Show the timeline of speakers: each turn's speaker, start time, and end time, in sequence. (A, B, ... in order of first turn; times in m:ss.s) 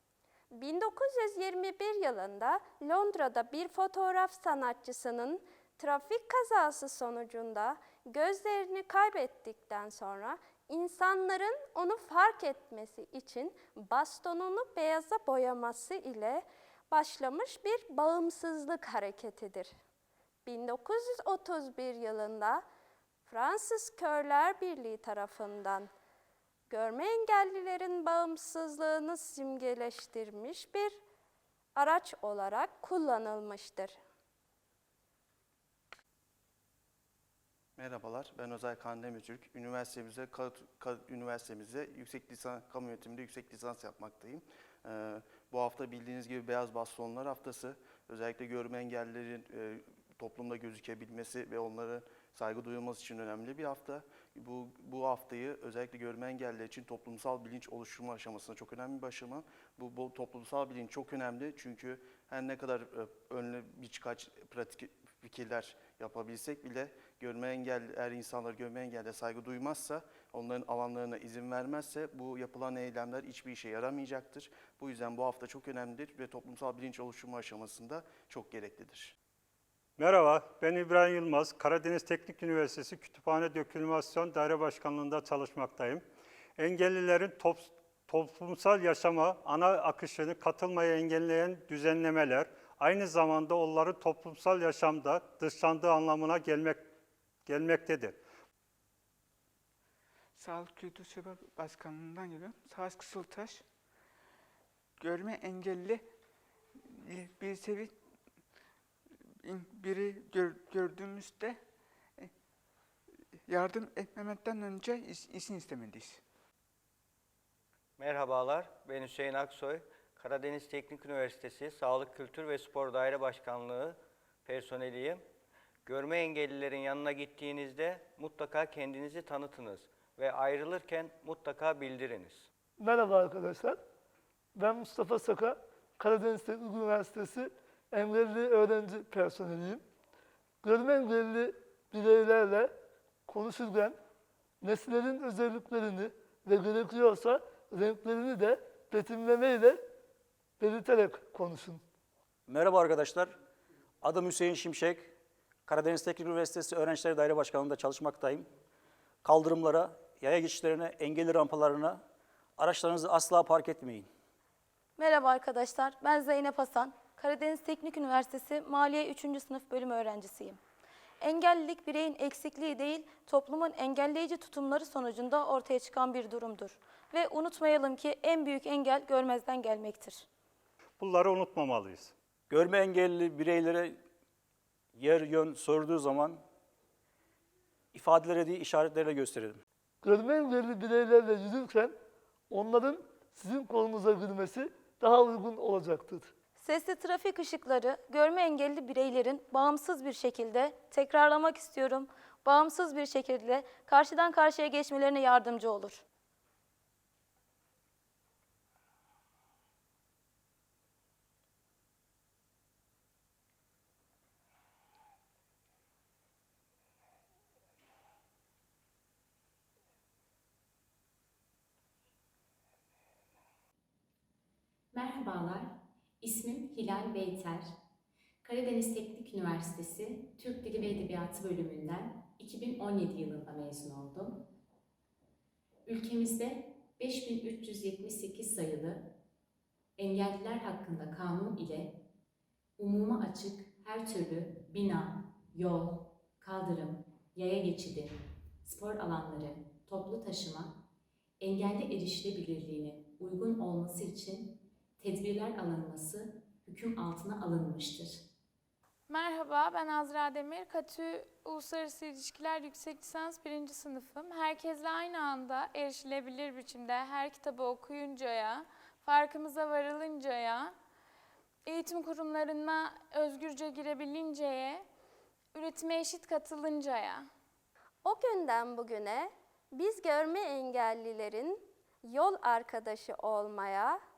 0:00.5-0:19.7 A
0:20.4-0:22.6 A
0:23.3-0:25.9 A
0:26.7-0:31.0 A
0:31.7-0:34.0 A
0:37.8-1:19.1 B
1:20.0-1:26.0 C
1:26.6-1:36.8 C
1:37.4-1:38.2 C
1:40.3-1:43.6 D
1:45.0-1:46.1 D
1:46.9-1:47.9 D
1:49.4-1:51.6 D
1:53.5-1:56.2 D
1:58.0-2:05.2 E
2:05.8-2:12.5 E
2:12.8-2:13.8 F
2:14.5-2:19.8 F
2:20.6-2:22.7 F
2:23.3-2:24.0 F
2:24.6-2:29.8 F
2:30.6-2:31.8 F
2:32.5-2:33.3 G
2:34.0-2:35.1 G
2:35.7-2:38.5 G
2:39.2-2:42.0 G
2:42.6-2:44.1 G
2:45.0-2:50.6 H
2:51.2-3:00.2 H
3:01.0-3:02.1 C
3:02.5-3:04.0 G
3:04.9-3:06.4 G
3:07.9-3:09.6 G
3:10.0-3:11.9 F
3:12.5-3:16.3 F
3:16.6-3:26.0 H
3:44.9-3:47.7 I
3:48.4-3:54.4 I
3:55.8-3:59.1 I
4:00.0-4:02.0 I
4:02.8-4:10.8 I
4:11.4-4:18.2 I
4:19.1-4:30.7 J
4:31.6-4:34.8 J
4:35.5-4:37.3 J
4:38.0-4:44.0 A